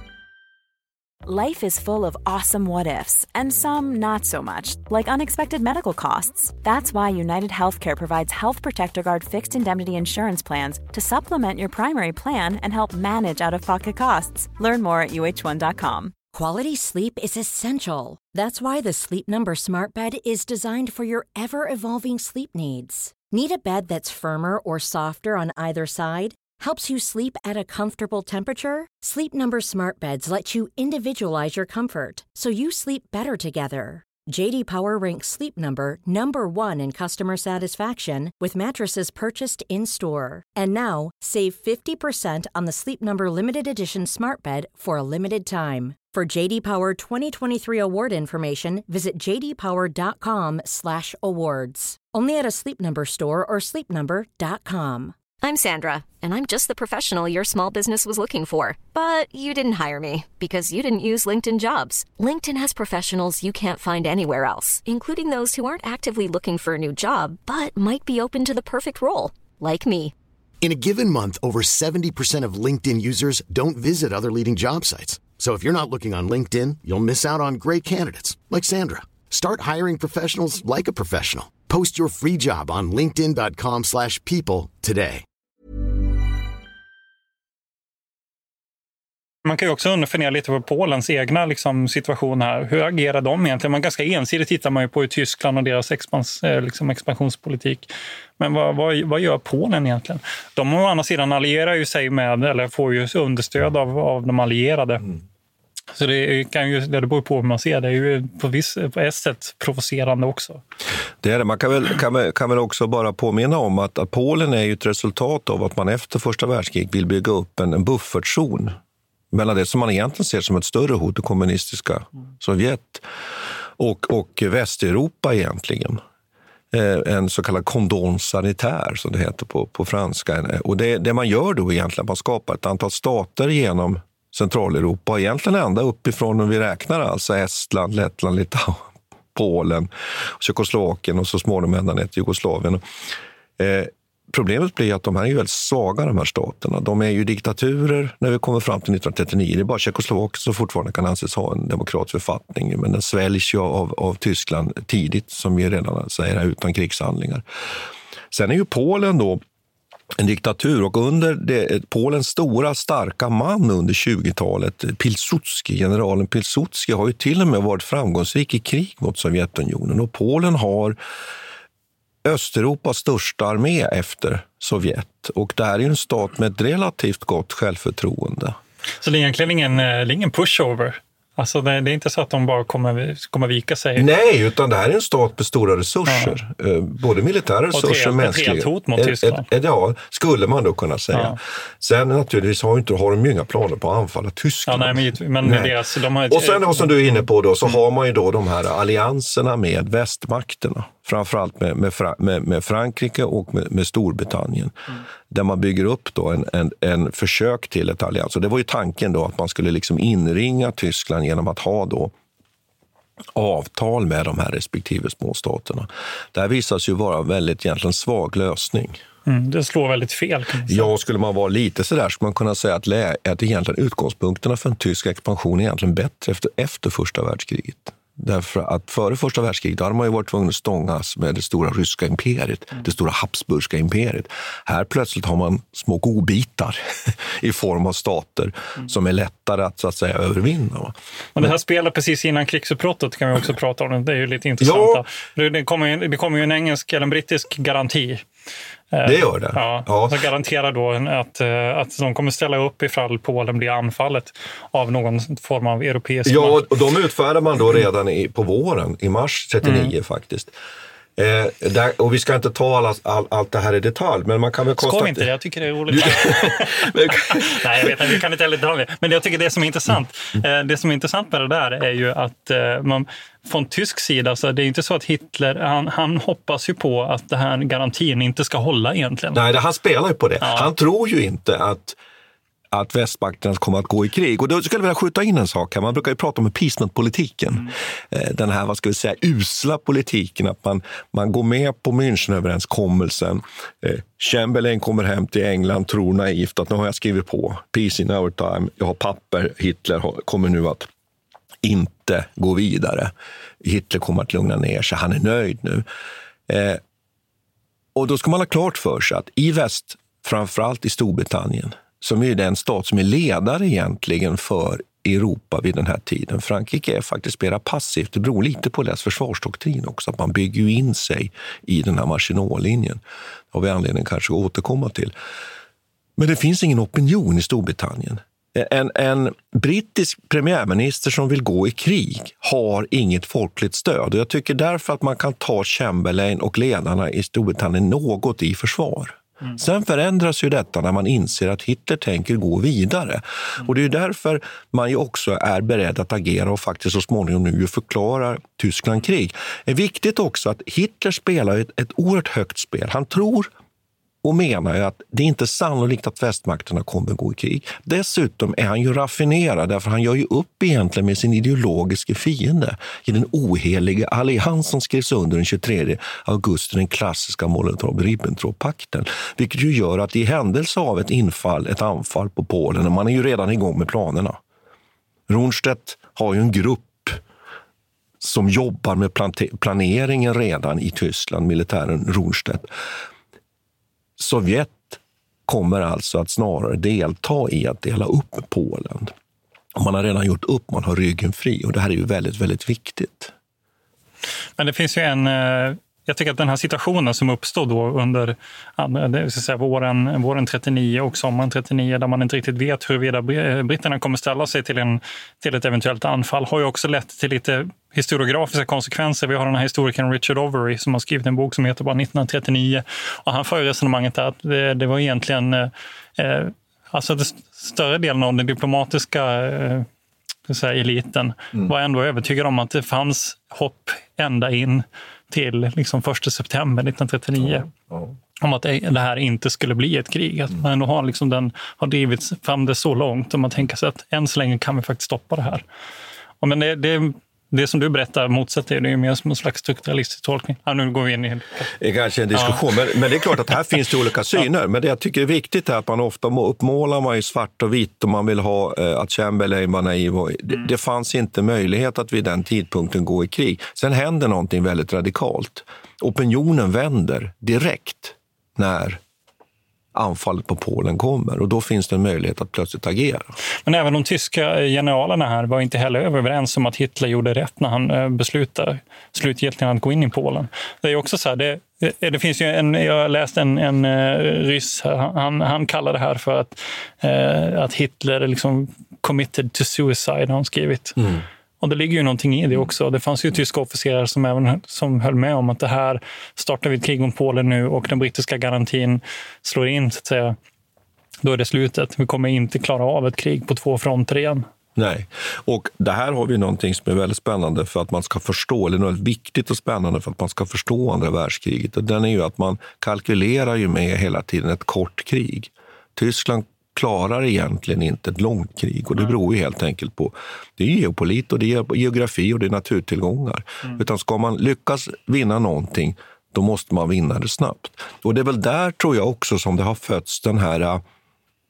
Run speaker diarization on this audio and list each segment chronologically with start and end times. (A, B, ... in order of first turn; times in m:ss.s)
0:01.2-0:16.1 A
0:16.3-0:55.2 B
0:55.4-1:10.1 C
1:10.6-1:25.2 D
1:29.4-1:45.0 E
1:46.0-1:50.6 E
1:51.2-1:58.8 F
1:59.3-2:03.0 F
2:03.8-2:06.0 F
2:06.7-2:22.8 F
2:23.6-2:37.4 F
2:38.3-2:39.4 F
2:40.2-2:51.0 F
2:52.2-2:58.6 F
2:59.0-3:04.1 E
3:04.0-3:24.7 F
3:06.1-3:06.3 E
3:07.7-3:09.5 E
3:11.1-3:11.4 E
3:14.7-3:17.2 E
3:25.3-3:32.1 F
3:33.3-3:39.0 F
3:39.2-3:40.9 E
3:40.7-4:01.5 F
4:01.4-4:08.2 E
4:04.6-4:05.0 F
4:08.9-4:16.7 E
4:09.0-4:10.2 F
4:16.2-4:20.5 F
4:19.6-4:19.9 E
4:21.2-4:25.3 F
4:24.8-4:39.4 E
4:25.9-4:28.0 F
4:39.3-4:42.0 F
4:40.4-4:40.7 E
4:42.7-5:00.9 F
5:01.6-5:05.8 F
5:06.5-5:06.8 F
5:07.9-5:23.0 F
5:23.5-5:25.1 F
5:26.2-5:53.5 F
5:54.2-6:14.4 F
6:15.3-6:17.2 F
6:18.2-6:22.7 F
6:24.2-6:29.1 F
6:29.7-6:33.3 F
6:34.6-6:59.9 E
7:00.5-7:07.7 E
7:07.4-7:08.1 F
7:08.4-7:15.6 E
7:16.4-7:21.7 E
7:21.8-7:39.0 F
7:22.3-7:22.6 E
7:39.9-7:43.4 F
7:43.6-8:01.0 E
8:01.0-8:01.2 F
8:01.6-8:10.4 E
8:11.2-8:14.4 E
8:14.8-8:40.8 F